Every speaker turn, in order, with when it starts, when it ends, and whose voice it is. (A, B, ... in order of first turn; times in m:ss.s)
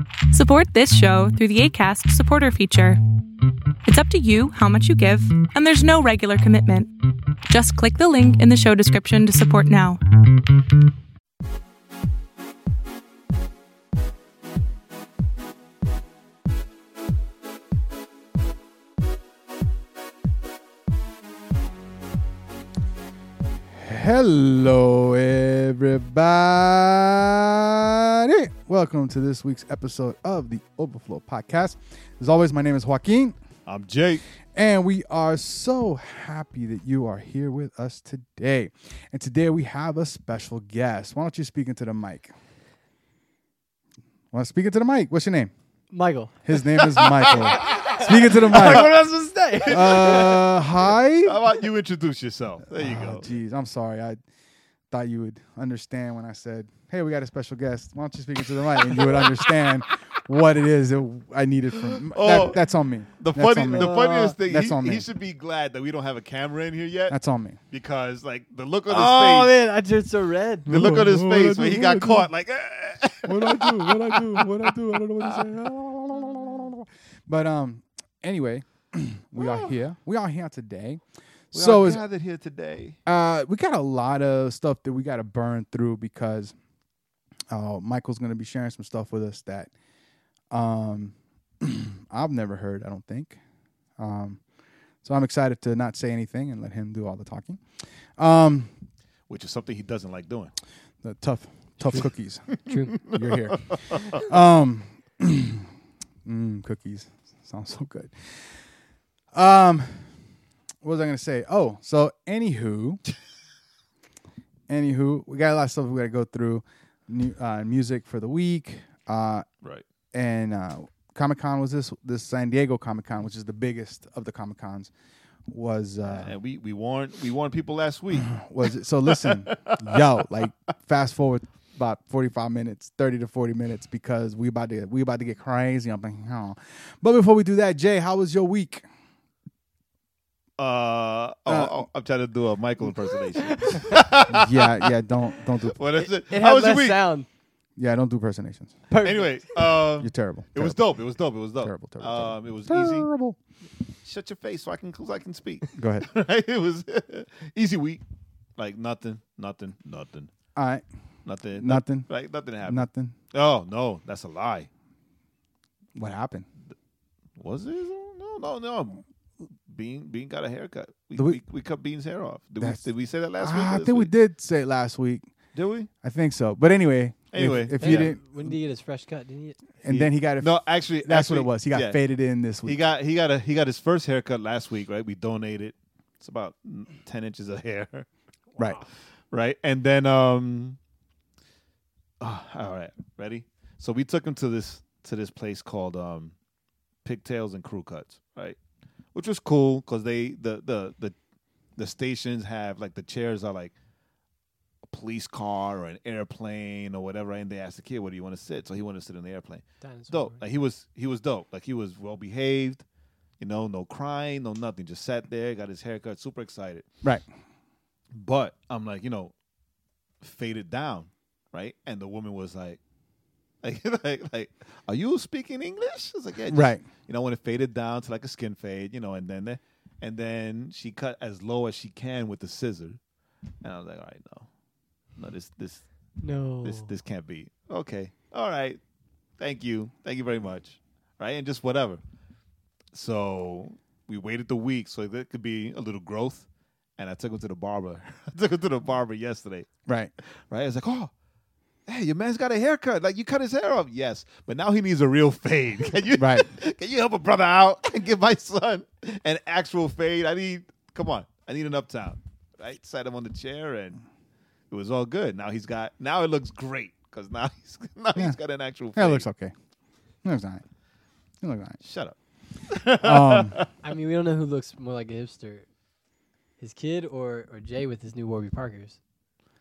0:00.3-0:03.0 A
0:03.8-0:10.0 A
0:23.7-0:33.4 B
0:33.7-0:34.2 C
0:34.6-0:42.3 B
0:44.3-0:45.5 B
0:45.9-0:50.5 D
0:46.4-0:49.0 B
0:49.6-0:51.4 B
0:49.7-0:50.2 C
0:51.2-0:53.3 C
0:52.8-0:54.2 B
0:54.9-1:05.1 B
0:58.8-0:59.4 C
1:01.8-1:02.6 C
1:03.2-1:07.2 C
1:03.7-1:04.4 D
1:07.1-1:07.6 B
1:07.7-1:09.6 C
1:08.9-1:10.8 D
1:10.7-1:12.3 B
1:10.7-1:15.7 C
1:13.2-1:21.0 B
1:19.4-1:19.7 C
1:21.5-1:22.0 B
1:21.5-1:23.0 C
1:23.1-1:26.6 B
1:27.5-1:29.7 B
1:30.5-1:33.4 B
1:34.0-1:34.4 B
1:35.0-1:37.6 B
1:38.2-1:38.7 B
1:39.3-1:40.5 C
1:41.0-1:45.7 B
1:41.8-1:42.1 D
1:42.5-1:44.2 C
1:42.7-1:42.9 D
1:46.2-1:48.6 B
1:49.3-1:50.1 B
1:50.8-1:53.0 B
1:54.7-1:59.4 B
2:00.1-2:04.9 B
2:05.5-2:06.3 B
2:06.1-2:08.4 C
2:08.1-2:18.8 B
2:09.0-2:10.0 C
2:20.6-2:24.9 C
2:21.5-2:21.9 B
2:23.5-2:24.0 D
2:24.3-2:25.8 B
2:25.6-2:27.0 C
2:26.0-2:27.3 D
2:27.8-2:28.8 B
2:28.9-2:29.4 D
2:29.0-2:33.1 C
2:30.0-2:30.8 B
2:31.6-2:33.4 B
2:34.0-2:38.0 C
2:35.7-2:36.1 B
2:38.6-2:40.3 C
2:40.5-2:40.8 B
2:41.2-2:44.7 C
2:41.5-2:42.1 B
2:42.6-2:43.1 B
2:45.9-2:46.5 B
2:47.4-2:49.0 C
2:49.7-2:54.1 C
2:53.4-2:55.2 B
2:55.5-2:55.9 C
2:56.0-2:58.6 B
2:57.3-2:58.1 C
2:57.8-2:59.6 D
2:59.8-3:02.8 B
2:59.9-3:02.0 C
3:02.6-3:08.1 C
3:09.3-3:10.8 C
3:12.2-3:16.3 C
3:17.0-3:18.6 C
3:19.1-3:21.1 C
3:21.8-3:23.7 C
3:24.9-3:32.8 C
3:29.8-3:30.4 D
3:33.4-3:36.8 C
3:38.1-3:39.3 C
3:40.2-3:42.8 C
3:43.6-3:53.0 C
3:46.5-3:46.8 B
3:53.6-3:54.5 C
3:55.2-3:55.9 C
3:56.2-3:56.9 D
3:56.6-3:58.8 C
3:59.4-4:02.0 C
4:02.9-4:06.4 C
4:07.0-4:11.1 C
4:09.9-4:10.1 B
4:11.9-4:24.0 C
4:16.2-4:16.5 B
4:24.7-4:29.2 C
4:29.0-4:29.5 B
4:30.2-4:30.6 B
4:31.4-4:31.8 B
4:31.8-4:32.2 C
4:32.7-4:33.7 C
4:33.0-4:33.6 B
4:33.8-4:35.7 D
4:36.6-4:39.0 D